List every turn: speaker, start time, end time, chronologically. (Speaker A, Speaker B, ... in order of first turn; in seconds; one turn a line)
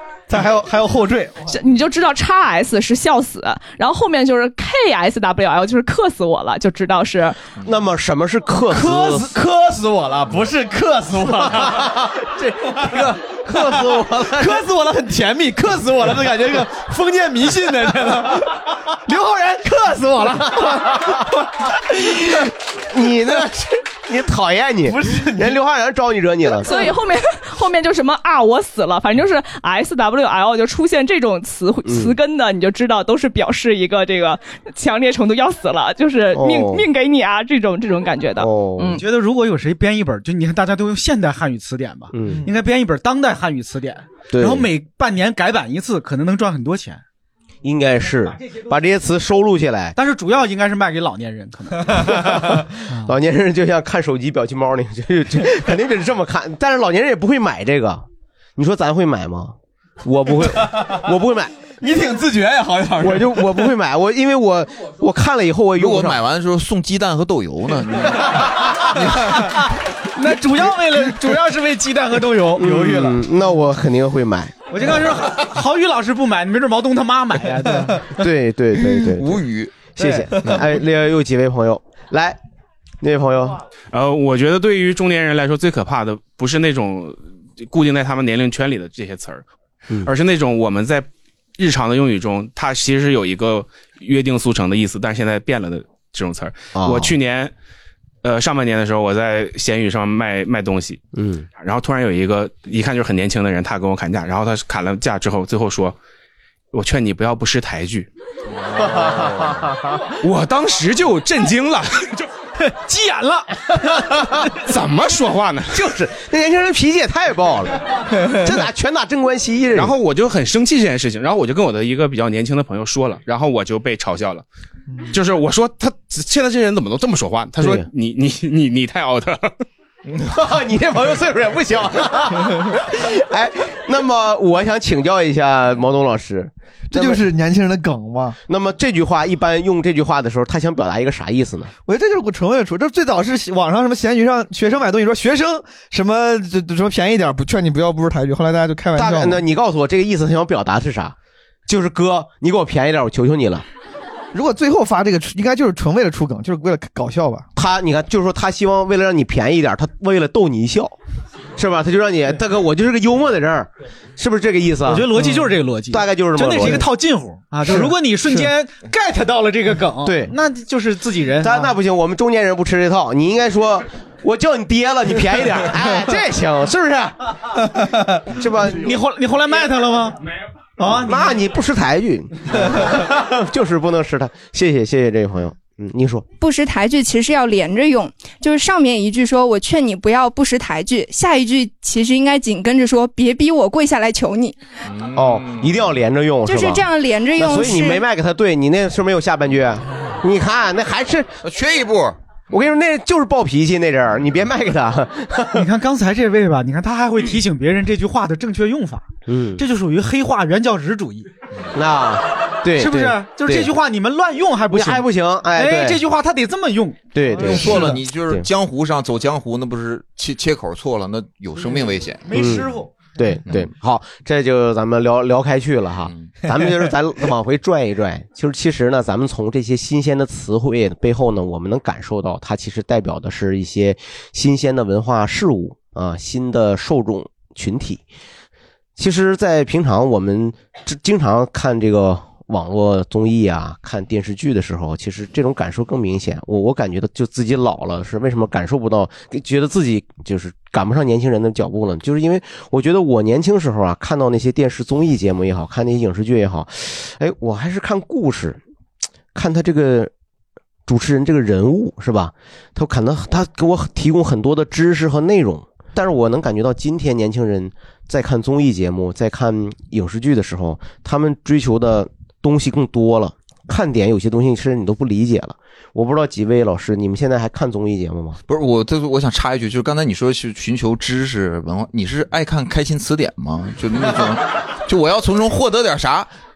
Speaker A: 0.3-1.4
Speaker B: 1.5-7.4
Speaker C: 7.6-9.3
Speaker A: 8.7-12.0
Speaker C: 11.4-14.6
Speaker A: 12.7-21.3
Speaker C: 20.5-21.2
Speaker C: 21.9-26.7
Speaker A: 24.9-25.6
Speaker B: 26.6-39.0
Speaker C: 31.8-32.2
Speaker C: 36.3-36.9
Speaker C: 38.4-39.0
Speaker D: 38.9-47.0
Speaker C: 42.1-42.4
Speaker C: 44.3-44.7
Speaker C: 47.6-50.0
Speaker D: 50.0-52.3
Speaker D: 52.9-53.1
Speaker C: 53.0-58.0
Speaker C: 58.6-61.5
Speaker A: 61.8-63.5
Speaker C: 63.0-66.2
Speaker E: 65.8-68.6
Speaker D: 70.1-73.1
Speaker C: 72.6-74.5
Speaker D: 74.7-78.1
Speaker C: 78.2-79.4
Speaker E: 79.1-79.9
Speaker C: 80.0-82.4
Speaker A: 80.0-80.6
Speaker C: 83.0-83.6
Speaker F: 83.9-89.4
Speaker F: 90.0-97.5
Speaker C: 96.7-97.1
Speaker F: 98.2-101.0
Speaker C: 101.1-101.5
Speaker F: 101.6-106.0
Speaker F: 106.7-108.1
Speaker C: 108.8-109.8
Speaker F: 110.2-112.3
Speaker D: 112.7-113.6
Speaker C: 113.9-114.5
Speaker F: 114.6-115.9
Speaker C: 115.7-119.9
Speaker F: 119.7-124.4
Speaker F: 125.1-129.5
Speaker C: 127.6-127.8
Speaker C: 130.1-137.2
Speaker A: 136.9-138.4
Speaker C: 138.5-141.7
Speaker A: 141.8-149.4
Speaker C: 148.9-151.1
Speaker C: 151.7-153.6
Speaker A: 154.3-157.5
Speaker C: 157.6-161.0
Speaker C: 161.6-165.2
Speaker D: 164.8-171.7
Speaker C: 165.9-166.9
Speaker C: 170.0-170.3
Speaker C: 171.4-177.2
Speaker C: 178.3-178.9
Speaker D: 178.8-180.2
Speaker D: 180.8-181.3
Speaker C: 180.9-186.2
Speaker G: 186.4-194.6
Speaker E: 194.8-195.8
Speaker C: 195.1-201.3
Speaker G: 196.4-198.0
Speaker E: 201.4-202.2
Speaker C: 202.5-205.7
Speaker D: 205.5-211.3
Speaker C: 209.3-209.6
Speaker C: 211.7-213.7
Speaker D: 212.7-217.1
Speaker C: 214.7-216.0
Speaker C: 217.1-218.5
Speaker E: 217.4-222.4
Speaker D: 217.7-217.9
Speaker D: 222.2-223.1
Speaker C: 222.3-238.0
Speaker E: 226.1-226.3
Speaker C: 239.0-258.6
Speaker C: 259.3-260.1
Speaker C: 260.9-278.4
Speaker E: 278.5-286.3